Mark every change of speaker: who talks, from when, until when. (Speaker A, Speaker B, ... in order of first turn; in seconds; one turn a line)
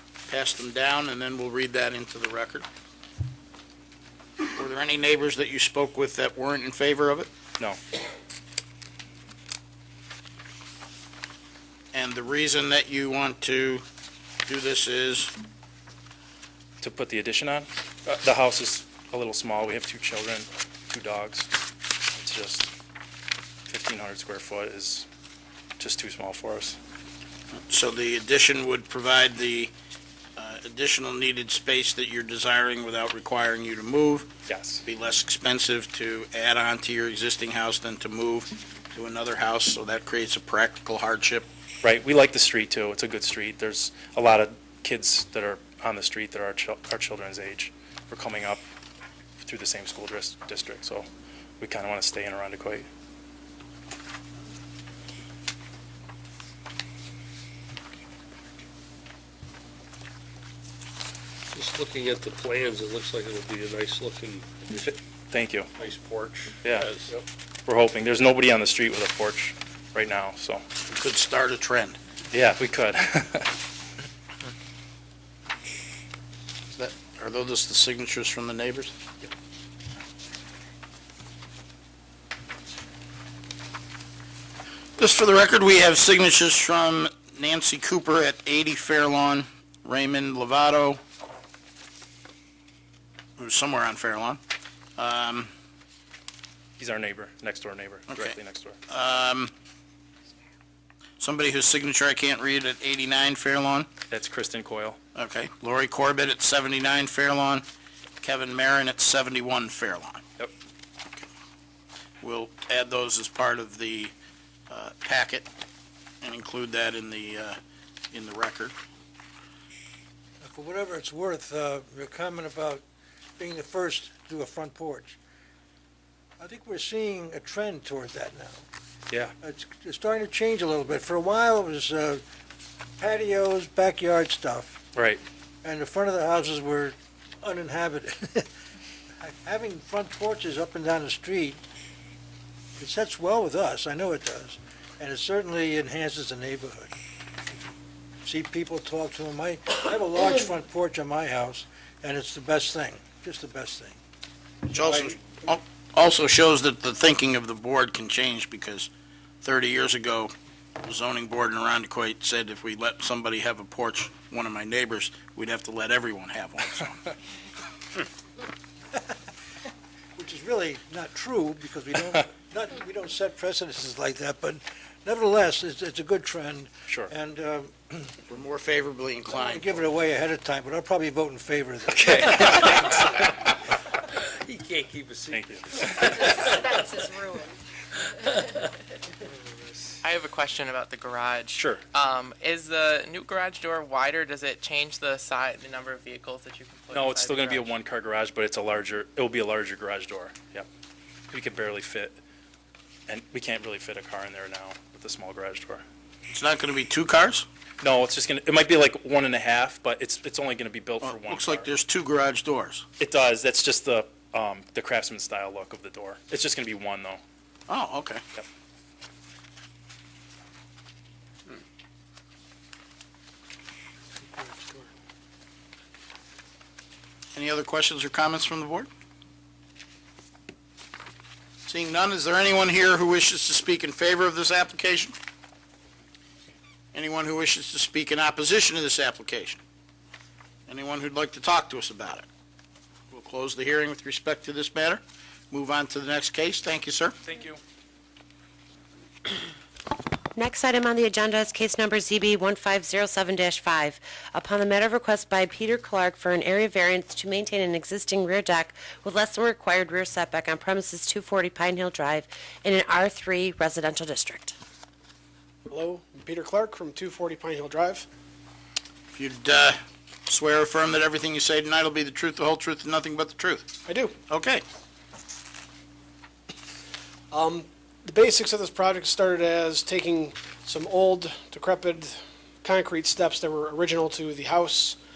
Speaker A: 0.3-2.6
Speaker A: 4.5-7.3
Speaker A: 11.9-13.8
Speaker A: 14.5-15.3
Speaker B: 16.8-21.5
Speaker B: 22.1-22.7
Speaker B: 23.7-25.1
Speaker B: 25.8-26.8
Speaker A: 27.6-29.7
Speaker A: 30.4-34.3
Speaker B: 34.5-34.8
Speaker A: 34.8-41.5
Speaker B: 41.8-48.6
Speaker B: 49.4-51.1
Speaker B: 51.6-52.9
Speaker C: 61.5-65.0
Speaker B: 65.3-65.7
Speaker C: 65.8-67.2
Speaker B: 66.6-67.0
Speaker B: 67.7-70.6
Speaker A: 70.9-72.0
Speaker B: 72.3-73.5
Speaker A: 76.7-78.9
Speaker A: 85.0-91.0
Speaker A: 93.4-94.4
Speaker A: 95.0-95.5
Speaker B: 96.8-98.8
Speaker A: 98.1-98.4
Speaker A: 98.9-99.5
Speaker A: 101.2-103.9
Speaker B: 104.1-105.0
Speaker A: 105.1-107.6
Speaker A: 108.2-110.2
Speaker A: 112.2-114.1
Speaker A: 114.7-115.5
Speaker A: 116.2-117.6
Speaker A: 118.1-118.7
Speaker D: 120.4-122.8
Speaker D: 123.4-125.2
Speaker D: 126.4-128.7
Speaker D: 129.4-132.2
Speaker D: 133.0-134.8
Speaker B: 134.9-135.2
Speaker D: 135.6-138.5
Speaker D: 139.2-141.6
Speaker D: 142.8-146.9
Speaker D: 148.2-154.0
Speaker A: 154.7-158.9
Speaker D: 154.8-155.2
Speaker A: 159.4-167.1
Speaker D: 170.2-178.1
Speaker A: 178.3-179.8
Speaker D: 179.3-182.7
Speaker B: 182.0-183.1
Speaker C: 184.1-187.4
Speaker B: 185.3-186.1
Speaker E: 190.0-197.8
Speaker B: 191.6-191.8
Speaker B: 196.9-200.7
Speaker B: 201.3-202.2
Speaker B: 203.1-205.8
Speaker A: 206.3-207.5
Speaker B: 207.8-211.7
Speaker A: 211.0-212.8
Speaker B: 213.0-217.2
Speaker A: 217.7-218.2
Speaker A: 227.3-228.9
Speaker A: 231.7-235.2
Speaker A: 236.9-239.6
Speaker A: 240.7-242.2
Speaker A: 243.1-247.2
Speaker B: 247.3-247.6
Speaker F: 250.3-264.6
Speaker G: 265.7-268.1
Speaker A: 269.1-273.7
Speaker G: 273.9-274.1
Speaker A: 274.3-274.6
Speaker G: 277.3-285.0